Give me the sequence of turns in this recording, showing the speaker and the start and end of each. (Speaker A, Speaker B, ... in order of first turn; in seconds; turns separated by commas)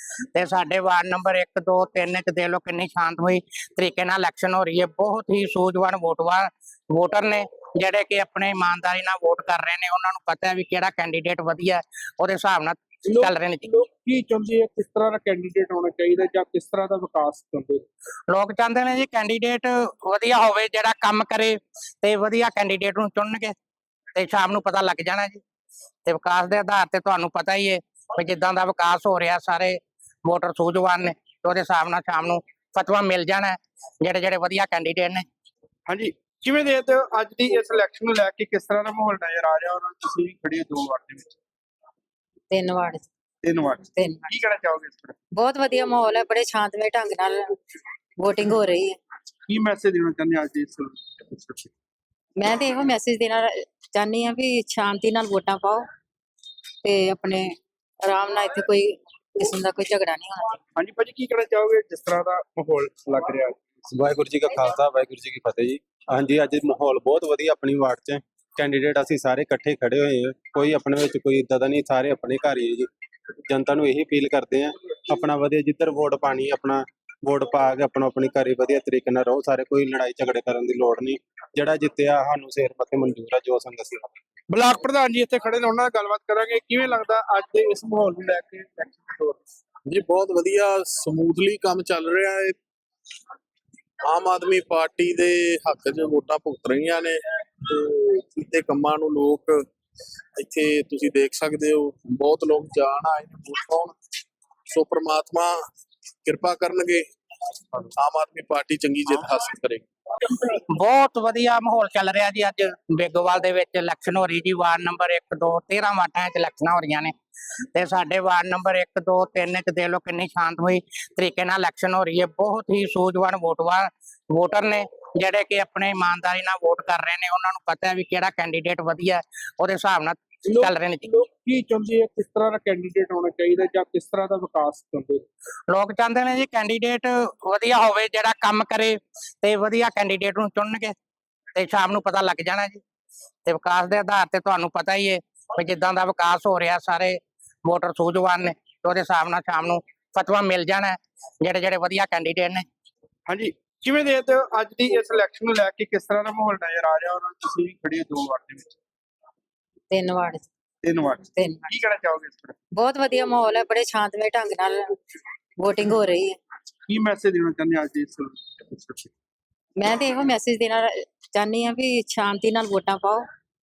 Speaker A: 0.3-13.7, Speaker B: 13.1-17.8, Speaker A: 18.3-23.6, Speaker A: 24.1-25.4, Speaker A: 26.0-35.2, Speaker B: 35.9-41.3, Speaker C: 42.5-43.1, Speaker B: 43.4-45.2, Speaker C: 43.9-44.3, Speaker C: 45.3-47.6, Speaker C: 48.2-49.0, Speaker B: 49.5-51.7, Speaker C: 52.4-55.8, Speaker C: 56.8-60.6, Speaker B: 60.8-63.6, Speaker D: 63.9-72.9, Speaker D: 73.5-84.2, Speaker B: 84.5-89.4, Speaker E: 89.9-92.5, Speaker E: 94.0-99.5, Speaker E: 100.4-103.9, Speaker E: 104.7-105.6, Speaker E: 106.2-107.0, Speaker E: 108.0-109.8, Speaker A: 110.3-117.1, Speaker A: 117.7-131.1, Speaker B: 130.5-135.2, Speaker A: 135.7-140.9, Speaker A: 141.5-142.8, Speaker A: 143.4-152.7, Speaker B: 153.3-158.7, Speaker C: 159.9-160.5, Speaker B: 160.8-162.6, Speaker C: 161.3-161.7, Speaker C: 162.8-165.0, Speaker C: 165.6-166.4, Speaker B: 166.9-169.1, Speaker C: 169.8-173.2